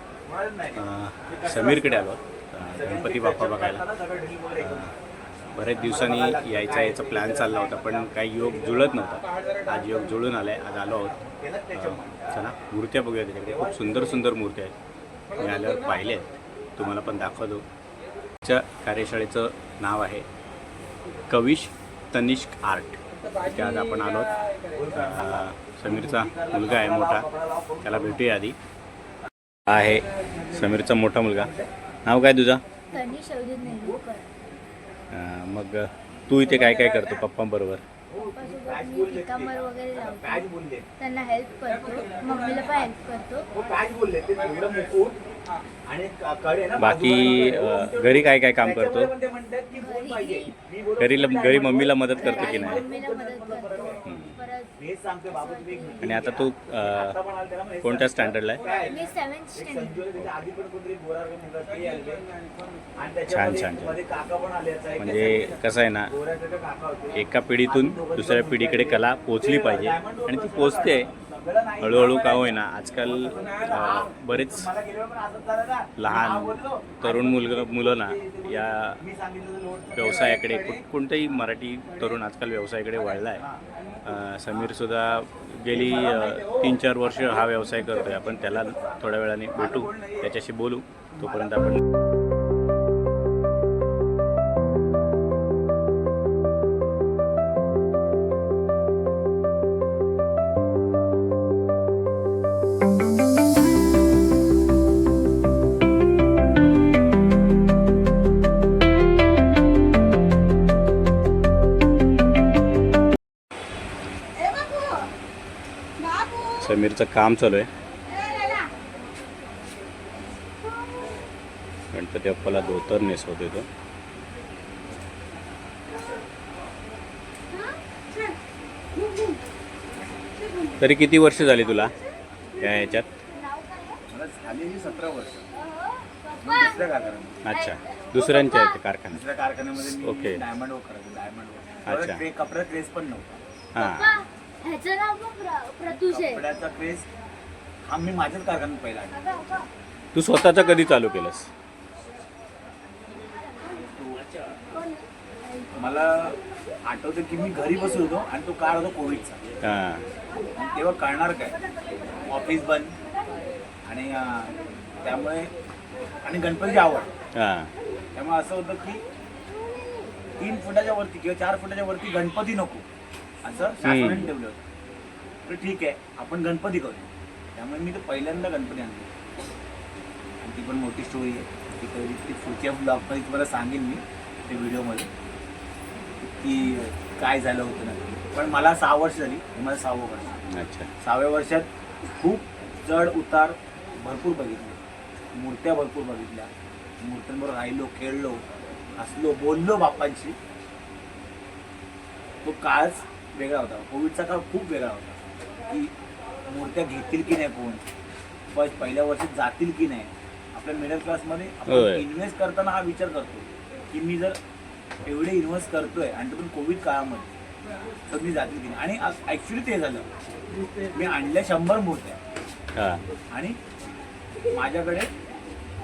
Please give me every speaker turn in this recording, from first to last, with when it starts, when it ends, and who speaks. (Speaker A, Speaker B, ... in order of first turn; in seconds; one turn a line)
Speaker A: 0.3-2.1
Speaker B: 0.8-3.8
Speaker A: 2.7-4.9
Speaker B: 4.6-4.9
Speaker B: 5.5-11.1
Speaker A: 5.8-9.3
Speaker A: 10.9-12.5
Speaker B: 11.8-14.7
Speaker A: 13.4-14.2
Speaker B: 15.4-17.7
Speaker B: 18.4-20.2
Speaker B: 21.3-24.3
Speaker A: 24.7-28.2
Speaker B: 24.9-27.3
Speaker B: 27.8-28.6
Speaker B: 29.7-31.5
Speaker A: 31.4-31.7
Speaker B: 32.1-32.6
Speaker C: 32.9-34.3
Speaker B: 35.1-37.8
Speaker A: 38.1-40.9
Speaker C: 38.2-40.5
Speaker C: 41.0-43.5
Speaker A: 43.5-45.2
Speaker A: 45.9-54.0
Speaker B: 46.8-49.1
Speaker C: 49.8-50.5
Speaker B: 51.0-52.8
Speaker C: 52.2-54.7
Speaker B: 54.0-54.4
Speaker A: 54.8-62.2
Speaker C: 55.3-56.3
Speaker B: 56.0-57.2
Speaker B: 57.8-58.6
Speaker C: 58.7-60.0
Speaker A: 63.0-65.6
Speaker B: 63.3-64.0
Speaker B: 65.0-66.1
Speaker A: 66.1-80.4
Speaker B: 67.1-71.1
Speaker B: 71.8-74.7
Speaker B: 76.0-79.0
Speaker B: 80.0-83.4
Speaker B: 84.0-91.8
Speaker A: 85.8-86.5
Speaker A: 88.2-88.9
Speaker A: 89.6-90.3
Speaker C: 114.5-114.9
Speaker C: 116.0-116.4
Speaker B: 116.6-117.7
Speaker C: 118.1-118.7
Speaker B: 121.9-123.7
Speaker B: 130.8-131.9
Speaker B: 132.6-133.1
Speaker C: 133.6-133.9
Speaker A: 134.1-135.4
Speaker A: 136.4-137.4
Speaker B: 137.4-139.2
Speaker C: 137.5-138.8
Speaker A: 139.1-143.4
Speaker B: 139.8-140.4
Speaker B: 141.9-142.2
Speaker B: 143.8-144.2
Speaker C: 143.8-146.4
Speaker A: 145.9-147.1
Speaker A: 147.8-149.3
Speaker B: 150.1-151.5
Speaker A: 153.9-154.2
Speaker A: 155.7-159.4
Speaker B: 159.6-160.1
Speaker A: 160.6-161.6
Speaker A: 162.2-163.0
Speaker A: 163.9-165.5
Speaker A: 166.2-167.1
Speaker B: 167.4-167.7
Speaker A: 168.2-169.0
Speaker A: 170.4-172.8
Speaker A: 173.4-174.6
Speaker B: 173.8-174.3
Speaker A: 175.5-179.1
Speaker A: 180.4-185.1
Speaker A: 186.2-190.3
Speaker B: 190.5-190.9
Speaker A: 191.0-194.8
Speaker A: 195.3-196.5
Speaker A: 197.0-198.4
Speaker A: 199.0-200.4
Speaker A: 202.4-205.9
Speaker A: 206.5-207.8
Speaker A: 208.5-214.4
Speaker B: 211.7-212.1
Speaker A: 215.0-217.3
Speaker A: 218.1-220.1
Speaker A: 220.9-222.2
Speaker B: 222.8-223.1
Speaker A: 223.3-223.6
Speaker A: 224.5-225.1